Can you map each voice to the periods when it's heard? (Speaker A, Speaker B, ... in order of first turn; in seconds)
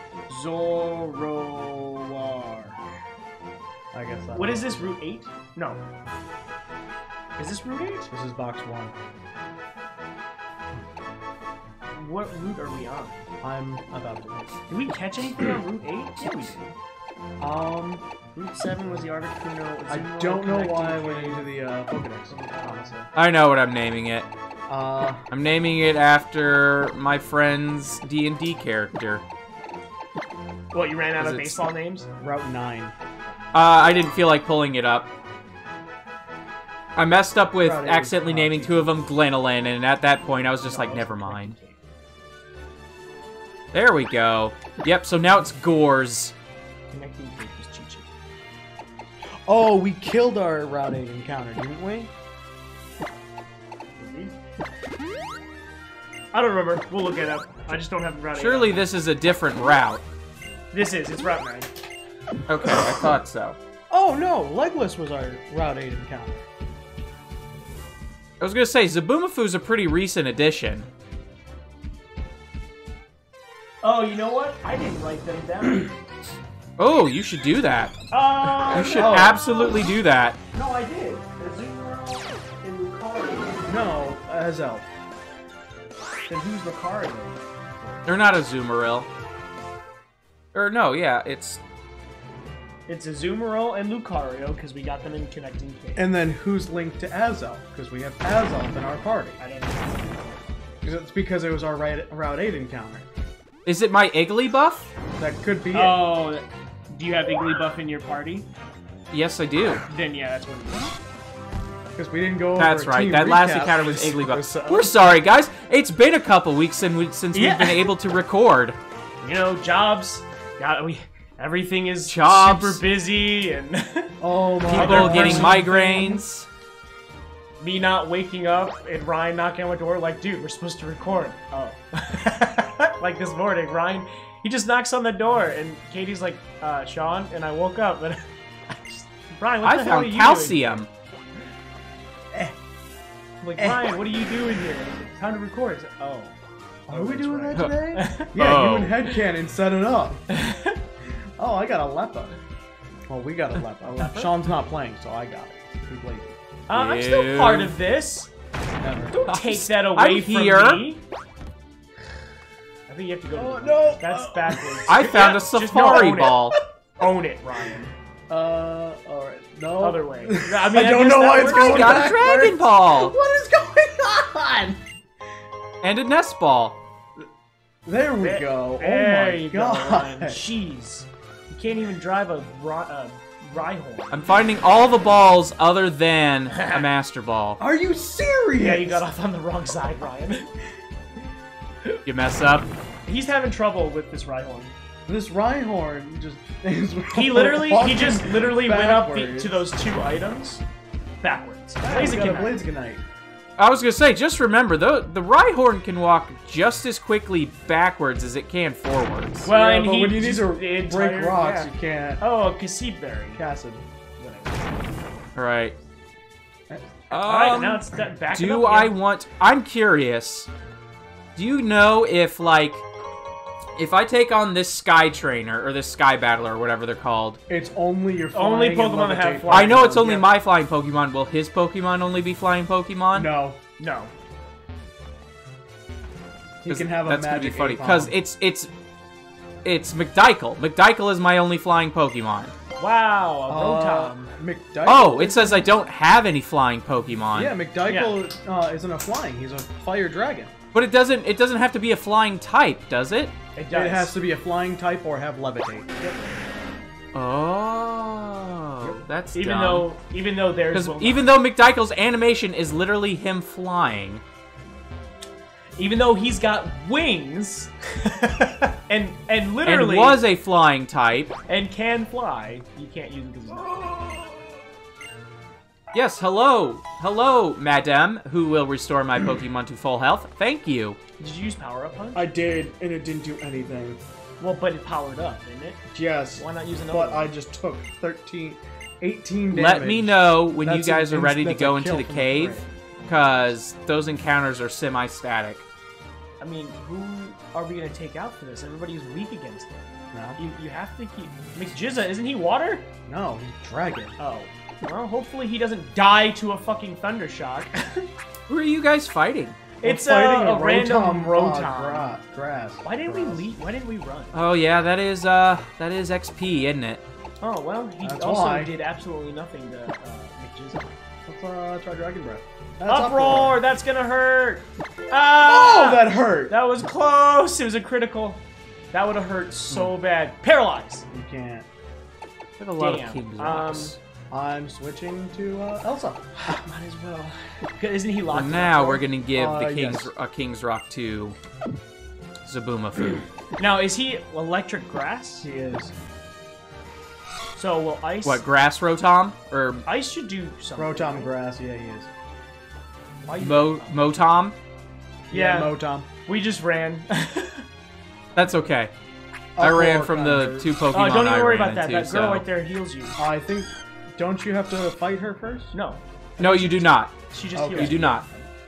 Speaker A: 0.3-2.8, 4.3-5.8, 7.4-8.1, 11.9-13.2, 14.7-16.7, 18.3-21.4, 22.3-23.1, 30.7-32.1, 40.6-41.8, 46.9-48.1, 54.0-54.3, 56.3-58.8, 60.7-61.7, 73.8-75.9, 78.1-79.8, 80.5-83.7, 86.3-88.0, 92.9-96.1, 99.4-100.4, 105.7-108.5, 109.9-111.0, 117.3-117.9, 119.2-124.2, 124.7-125.7, 127.6-140.8, 143.4-146.3, 146.9-148.3, 150.3-150.8, 154.0-154.3, 156.7-158.3, 159.1-161.0, 162.9-166.4, 167.0-167.9, 169.8-172.1, 178.2-184.2, 186.5-186.9, 188.6-190.5, 193.1-194.7, 197.1-200.6, 201.2-202.6, 209.4-213.4, 214.2-214.7, 217.1-218.9, 228.3-230.2, 233.8-234.1, 242.8-244.3, 247.8-248.2, 253.5-254.1, 256.0-256.4, 259.3-261.3, 265.8-270.2, 271.5-274.2, 281.2-282.3, 284.4-287.3, 296.4-302.9, 304.2-308.1, 309.8-312.1, 312.8-314.4, 317.4-320.9, 322.9-331.0, 332.8-333.9, 336.4-339.0, 343.6-345.5, 347.6-348.4, 349.9-351.3, 353.2-354.1, 355.3-357.6, 360.9-363.2, 365.7-368.5
Speaker B: 3.9-4.8, 8.1-8.9, 13.4-14.6, 17.4-18.1, 19.9-23.0, 24.7-25.2, 32.2-32.9, 37.6-39.0, 49.5-52.1, 63.9-66.5, 78.9-79.4, 83.7-84.9, 96.0-99.4, 100.8-103.1, 105.2-106.0, 111.9-115.0, 124.2-126.2, 146.9-150.2, 151.4-152.3, 153.1-156.3, 158.8-159.2, 163.3-164.9, 168.3-174.8, 177.8-180.4, 187.6-189.1, 195.1-199.6, 201.8-203.0, 209.5-212.2, 213.3-213.8, 227.5-230.2, 233.1-233.6, 236.6-238.1, 243.5-245.7, 247.3-250.5, 253.7-255.9, 282.1-284.0, 285.9-292.6, 300.1-300.4, 303.1-304.1, 309.8-313.5, 318.0-318.7, 321.3-323.6, 325.4-326.6, 331.1-331.7, 334.3-336.6, 339.3-340.1, 345.4-345.9, 350.8-352.1, 355.3-356.1, 359.6-360.7, 363.2-365.7, 367.5-368.0
Speaker C: 23.1-24.3, 25.3-29.2, 31.2-31.6, 33.5-35.1, 37.0-41.5, 43.7-46.3, 58.3-60.0, 62.5-63.6, 68.4-70.9, 76.8-78.0, 78.6-80.4, 88.0-89.1, 90.5-91.6, 103.7-104.9, 109.1-109.8, 112.6-118.8, 122.1-122.8, 124.7-126.5, 139.6-140.9, 147.5-149.0, 156.7-157.7, 159.3-160.8, 164.9-166.6, 171.5-173.2, 175.8-176.8, 184.1-187.6, 192.0-192.7, 203.6-209.5, 215.3-215.7, 217.1-220.5, 221.3-222.8, 223.8-227.4, 229.5-233.3, 236.7-238.7, 239.6-242.5, 244.8-247.5, 250.7-253.3, 257.1-259.9, 260.7-264.2, 269.6-271.3, 275.9-281.0, 289.5-295.6, 308.5-309.6, 314.3-317.0, 332.6-334.0, 338.3-341.4, 342.4-343.2, 348.2-349.8, 353.4-354.5, 358.4-358.9, 359.6-362.4, 366.4-368.2